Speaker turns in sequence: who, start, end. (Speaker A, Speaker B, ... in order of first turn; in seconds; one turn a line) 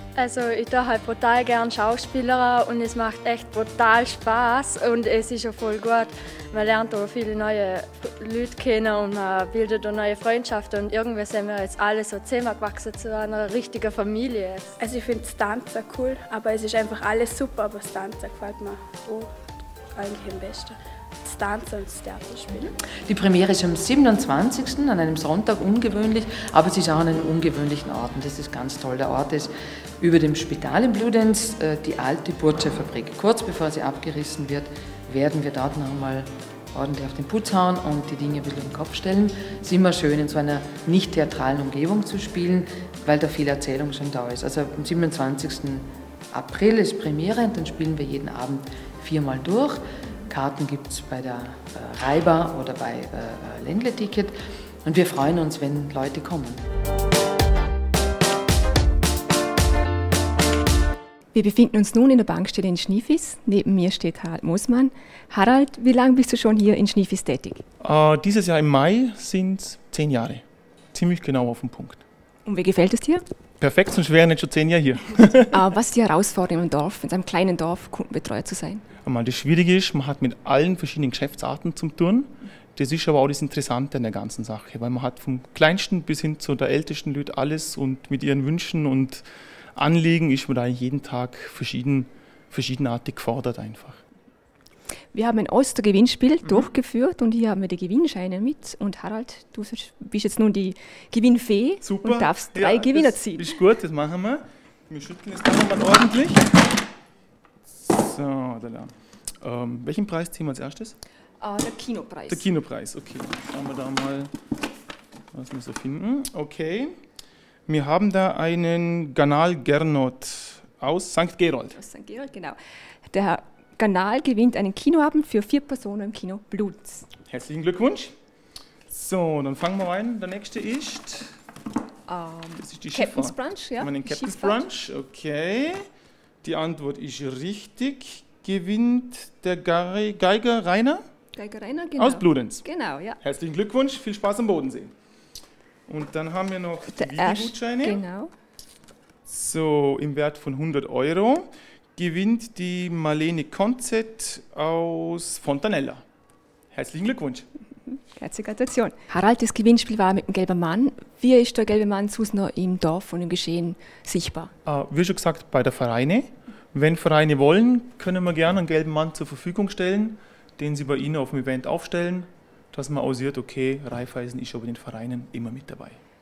Speaker A: 0.1-14.7
Speaker B: 14.8-19.3
Speaker B: 19.9-22.7
Speaker C: 23.1-56.6
Speaker D: 61.3-67.6
Speaker E: 67.8-72.0
Speaker D: 72.5-73.2
Speaker E: 73.6-75.5
Speaker D: 75.5-78.8
Speaker E: 79.0-94.0
Speaker D: 95.1-103.5
Speaker E: 101.8-106.5
Speaker E: 107.8-111.0
Speaker D: 111.4-112.4
Speaker E: 112.3-114.3
Speaker E: 115.3-116.9
Speaker E: 117.7-121.8
Speaker D: 121.7-122.6
Speaker D: 123.1-127.1
Speaker E: 127.3-128.1
Speaker E: 128.9-131.3
Speaker D: 132.1-134.6
Speaker E: 132.6-135.8
Speaker E: 136.4-141.0
Speaker D: 141.3-143.2
Speaker E: 142.0-142.7
Speaker E: 143.2-144.9
Speaker E: 145.9-148.0
Speaker D: 146.9-148.3
Speaker E: 149.2-156.0
Speaker E: 156.7-157.5
Speaker D: 157.9-164.5
Speaker E: 164.6-176.0